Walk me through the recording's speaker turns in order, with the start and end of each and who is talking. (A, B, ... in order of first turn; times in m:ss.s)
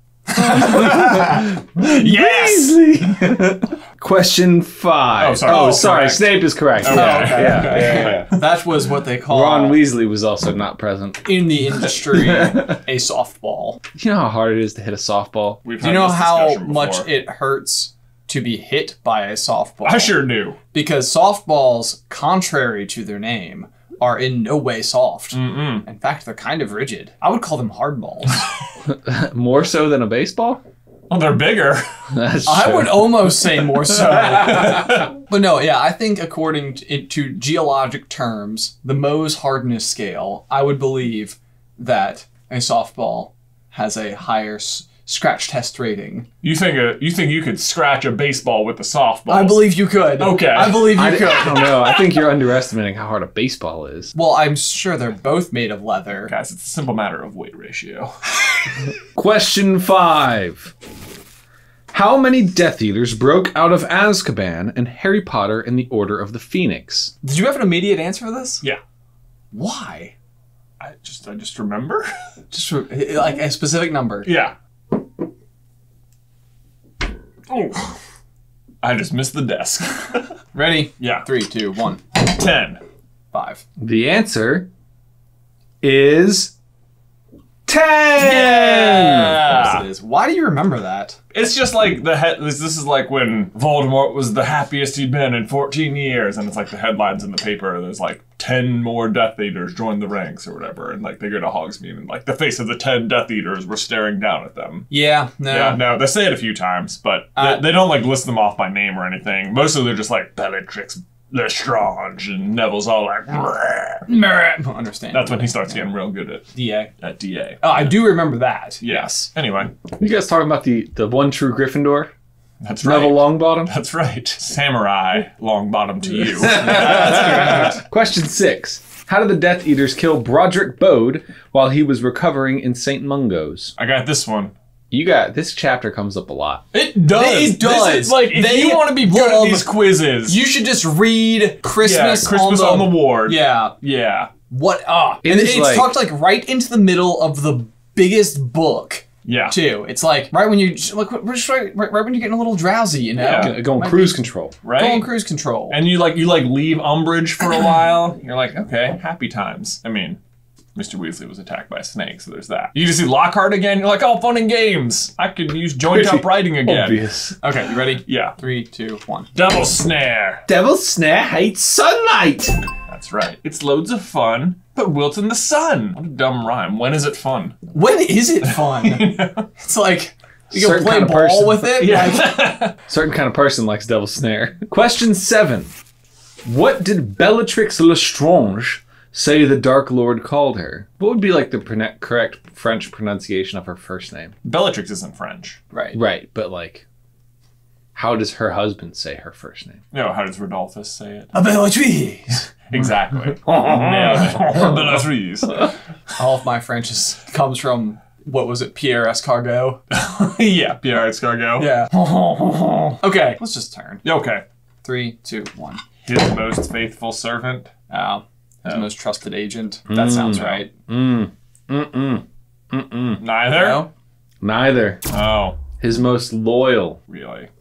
0:00.3-0:02.7 A
0:00.4-0:08.3 B
0:05.2-0:08.4 C
0:05.4-0:05.9 A
0:06.8-0:09.8 A
0:09.3-0:12.8 B
0:11.2-0:13.8 A
0:14.0-0:15.6 B
0:15.6-0:17.1 C
0:15.8-0:28.4 A
0:19.8-0:20.6 C
0:25.3-0:25.8 C
0:28.8-0:30.6 B
0:31.1-0:31.8 C
0:32.1-0:34.5 B
0:32.4-0:46.3 A
0:34.4-0:35.1 C
0:46.4-0:51.2 C
0:49.3-0:51.8 A
0:50.9-0:54.1 B
0:54.1-0:56.3 A
0:56.3-0:58.7 C
0:59.1-1:00.7 B
1:01.9-1:07.1 B
1:07.2-1:08.6 A
1:09.5-1:10.1 A
1:10.8-1:12.1 C
1:12.5-1:14.3 A
1:14.2-1:14.5 C
1:17.5-1:18.0 C
1:18.8-1:20.3 C
1:20.5-1:22.0 A
1:21.0-1:21.2 C
1:22.1-1:22.8 C
1:23.3-1:23.6 A
1:23.8-1:24.7 B
1:25.8-1:26.5 B
1:27.7-1:29.4 B
1:28.2-1:29.8 C
1:28.5-1:31.2 A
1:31.3-1:44.9 C
1:44.9-1:45.8 A
1:45.5-1:54.1 C
1:47.4-1:47.7 A
1:54.1-1:55.8 A
1:55.1-1:58.1 C
1:56.5-1:56.9 A
1:57.6-1:59.3 A
1:58.8-1:59.7 C
1:59.9-2:02.1 B
2:02.6-2:07.8 C
2:02.8-2:03.7 B
2:06.4-2:13.7 B
2:06.6-2:07.7 A
2:13.8-2:14.5 C
2:14.9-2:16.6 B
2:16.7-2:20.4 C
2:16.8-2:23.8 A
2:21.8-2:24.3 C
2:24.5-2:34.2 A
2:25.2-2:25.9 B
2:29.2-2:29.6 C
2:33.2-2:33.6 C
2:33.3-2:34.6 B
2:34.6-2:35.1 C
2:34.8-2:35.8 A
2:35.7-2:40.2 C
2:40.8-2:47.0 C
2:45.8-2:47.4 B
2:47.4-2:49.3 A
2:48.0-2:48.3 C
2:49.3-2:50.4 C
2:50.5-2:52.6 B
2:52.9-2:57.6 C
2:57.7-3:02.4 A
2:58.4-2:59.5 C
3:00.5-3:02.0 B
3:01.8-3:02.8 C
3:02.9-3:05.7 B
3:06.4-3:14.4 B
3:14.4-3:15.6 C
3:15.7-3:16.0 A
3:15.9-3:16.8 B
3:17.9-3:19.8 B
3:19.9-3:21.3 C
3:21.3-3:22.5 A
3:22.7-3:25.8 C
3:23.4-3:24.9 B
3:26.2-3:29.8 A
3:29.9-3:31.7 C
3:31.6-3:34.0 A
3:34.0-3:34.4 C
3:34.8-3:35.8 A
3:36.0-3:37.7 C
3:37.9-3:40.7 A
3:39.9-3:43.2 B
3:43.2-3:43.8 C
3:43.5-3:43.9 A
3:44.4-3:45.0 B
3:45.1-3:45.6 C
3:45.8-3:47.0 B
3:47.1-3:47.5 C